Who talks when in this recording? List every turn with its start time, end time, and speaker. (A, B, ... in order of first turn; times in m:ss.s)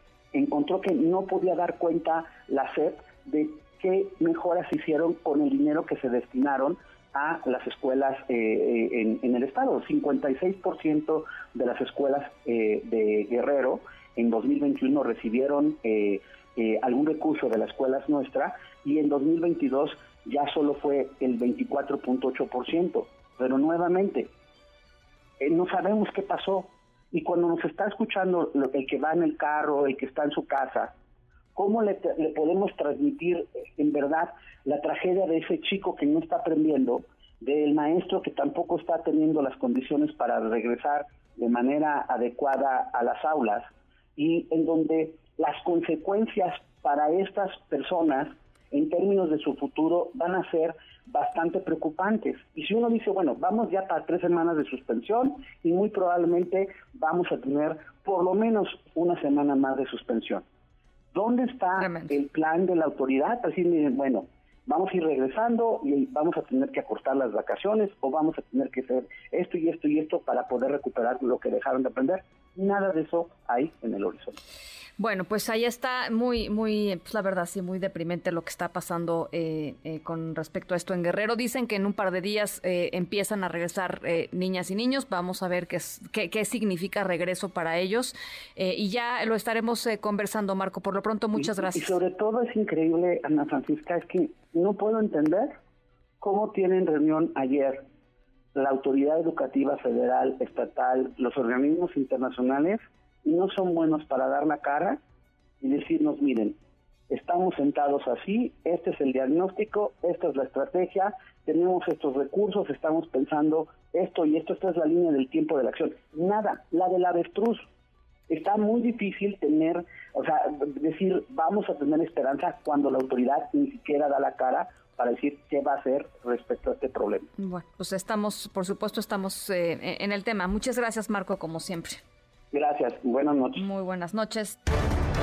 0:00.3-0:24.3 A
0:25.4-0:30.9 A
0:31.6-1:00.4 A
1:01.1-1:14.4 A
1:01.8-1:02.1 B
1:15.0-1:32.0 B
1:31.4-1:35.6 A
1:36.2-1:37.8 A
1:38.5-1:45.0 A
1:45.6-1:46.6 A
1:47.1-1:57.7 A
1:58.3-2:07.3 A
2:07.4-2:12.0 B
2:12.5-2:13.6 A
2:13.6-2:14.6 B